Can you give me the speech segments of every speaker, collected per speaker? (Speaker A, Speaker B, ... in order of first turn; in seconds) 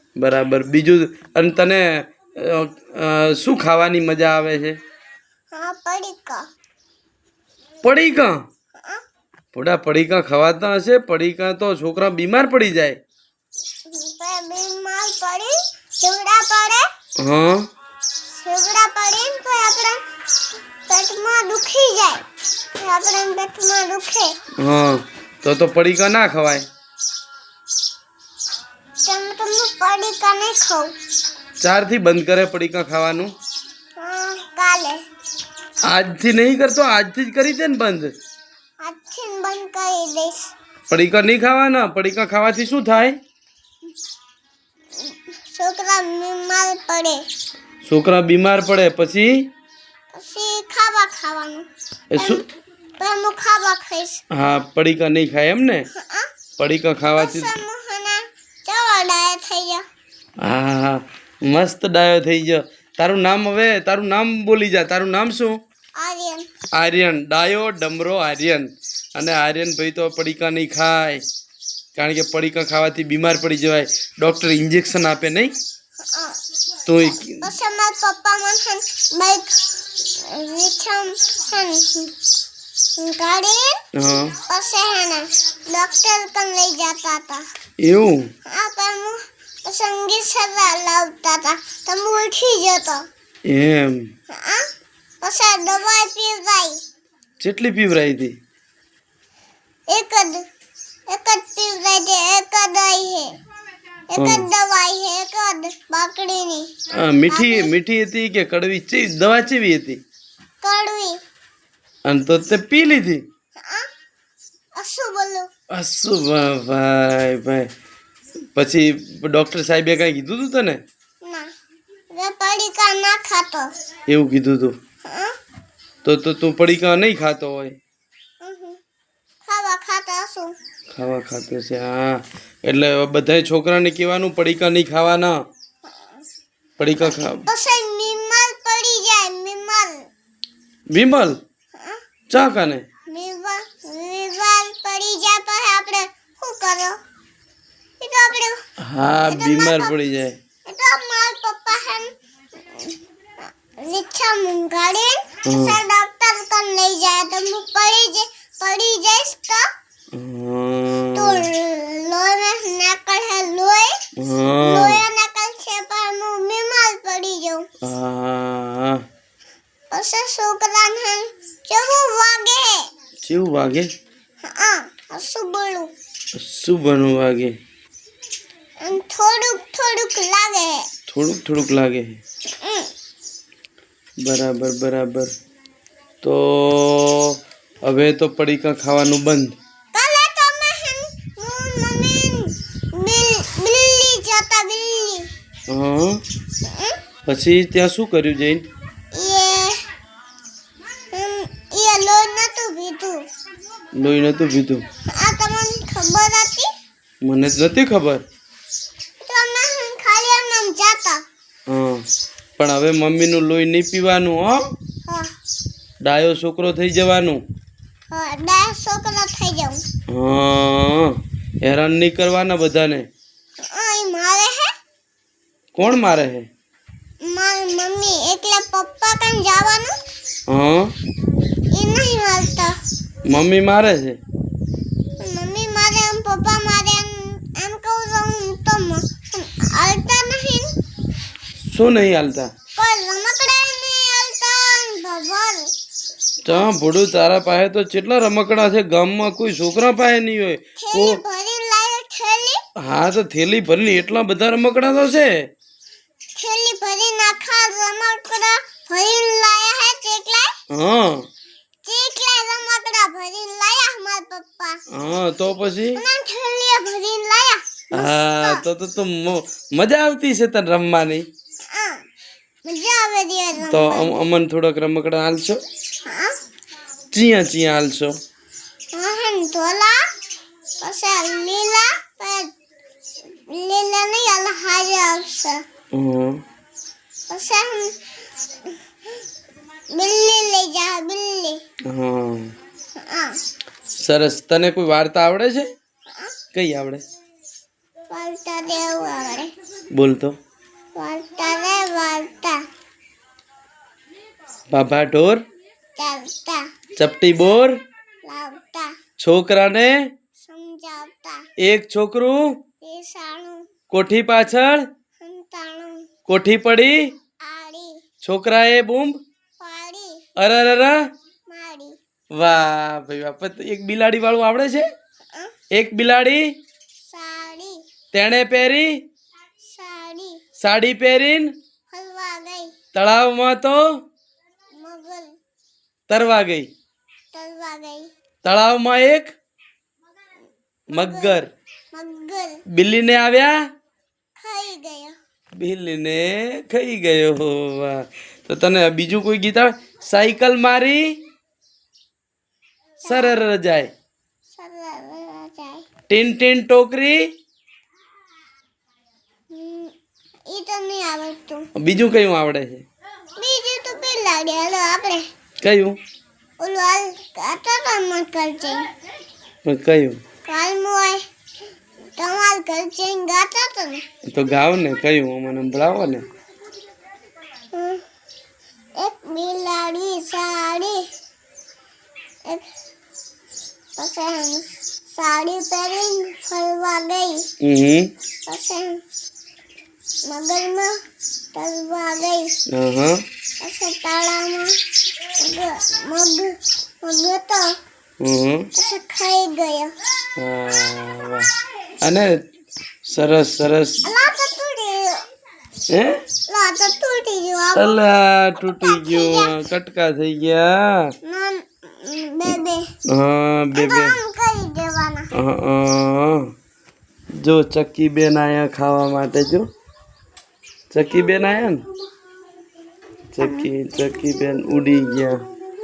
Speaker A: 0.2-4.8, 7.8-8.4, 9.5-13.0, 17.2-17.7, 24.6-26.6, 31.6-33.3, 35.8-38.1, 40.9-43.2, 47.8-49.4, 52.1-52.4, 54.3-55.9, 56.6-57.5, 60.4-65.6, 66.7-71.2, 71.9-75.5, 76.8-77.5, 83.9-84.3, 87.8-88.3, 93.5-94.1, 97.4-98.3, 104.1-104.5, 106.9-110.0, 112.0-113.2, 115.7-117.7, 118.5-120.8, 124.1-124.8, 126.0-127.8, 130.9-135.4, 136.8-137.4, 140.9-141.4, 142.3-142.8, 148.8-150.4, 155.4-155.8, 160.1-161.5, 164.2-165.0, 167.8-169.0, 173.2-173.9, 176.3-177.6, 181.1-182.2, 184.2-185.3, 186.2-189.6, 195.7-196.2, 197.2-198.7, 203.9-204.8, 207.2-208.2, 211.7-212.1, 212.6-214.7, 216.0-217.4, 220.1-223.1, 225.8-226.5, 230.5-230.9, 233.3-234.2, 241.7-242.5, 246.4-251.2, 252.8-255.4, 260.7-261.3, 264.9-266.0, 267.9-271.2, 273.6-275.6, 277.1-278.1, 285.9-286.4, 291.9-292.5, 294.0-295.7, 296.5-297.0, 299.9-300.4, 304.7-305.4, 307.0-307.8, 309.2-310.1, 311.6-312.6, 313.9-314.8, 316.2-317.1, 318.2-319.2, 320.4-321.0, 322.3-324.9, 325.7-326.5, 328.1-329.0, 330.6-331.5, 332.9-333.9, 336.1-336.7, 338.4-339.3, 340.9-341.5, 342.7-343.6, 345.6-351.1, 353.0-353.9, 356.1-357.3, 361.7-362.8, 365.6-366.0, 369.6-370.2, 374.2-376.2, 387.6-388.1, 392.7-393.2, 398.2-398.7, 400.4-401.5, 402.0-402.4, 403.1-404.1, 405.9-406.2, 407.7-411.1, 413.1-414.2, 415.3-416.5, 417.4-419.7, 420.9-421.9, 423.3-425.4
Speaker B: 5.5-6.4, 8.8-9.0, 13.9-16.9, 18.3-20.0, 20.9-22.2, 22.8-24.4, 29.0-30.9, 34.0-35.0, 38.8-40.5, 45.0-47.2, 50.1-52.4, 53.0-54.2, 55.9-56.3, 57.2-59.8, 66.0-66.5, 76.0-76.4, 77.4-82.1, 83.0-83.8, 84.3-87.5, 88.5-93.0, 94.3-94.6, 95.2-96.8, 99.9-100.4, 101.1-103.3, 104.1-106.7, 107.3-107.7, 110.6-111.2, 113.5-113.9, 114.7-115.5, 121.2-121.5, 122.1-123.7, 125.0-125.3, 128.4-128.8, 129.4-130.5, 135.9-136.2, 137.4-140.1, 141.7-142.0, 143.1-147.0, 148.0-148.6, 149.2-149.9, 150.7-153.0, 153.7-159.7, 161.1-167.7, 169.9-172.9, 174.4-175.9, 178.8-180.9, 182.5-182.9, 189.9-195.3, 196.6-197.0, 199.1-199.8, 201.1-203.3, 205.1-206.7, 209.2-211.2, 215.1-215.3, 218.1-219.8, 223.6-224.7, 227.2-229.9, 231.7-232.7, 235.2-240.7, 242.8-245.7, 250.8-252.6, 256.4-260.5, 261.8-264.8, 265.9-268.6, 271.7-272.0, 272.6-274.1, 276.0-276.3, 278.9-280.0, 280.8-282.5, 283.3-285.6, 287.3-288.8, 289.9-291.6, 292.9-293.4, 298.1-299.5, 300.9-302.6, 306.0-306.6, 308.2-308.9, 310.4-311.5, 312.8-313.7, 315.2-316.1, 317.4-318.0, 319.6-320.2, 321.5-322.0, 327.1-327.8, 329.6-330.4, 331.9-332.7, 334.8-335.4, 337.3-338.1, 340.9-341.4, 341.9-342.6, 344.4-345.1, 353.0-353.4, 354.6-355.9, 359.5-359.9, 360.5-361.6, 363.4-365.2, 366.6-368.9, 370.5-371.2, 372.2-374.0, 377.7-378.0, 379.0-381.1, 383.9-387.5, 388.4-389.0, 390.2-390.9, 391.5-392.6, 393.6-397.7, 398.7-399.9, 404.0-405.2, 406.5-408.0, 408.6-409.6, 411.2-412.8, 413.7-415.3, 423.4-423.7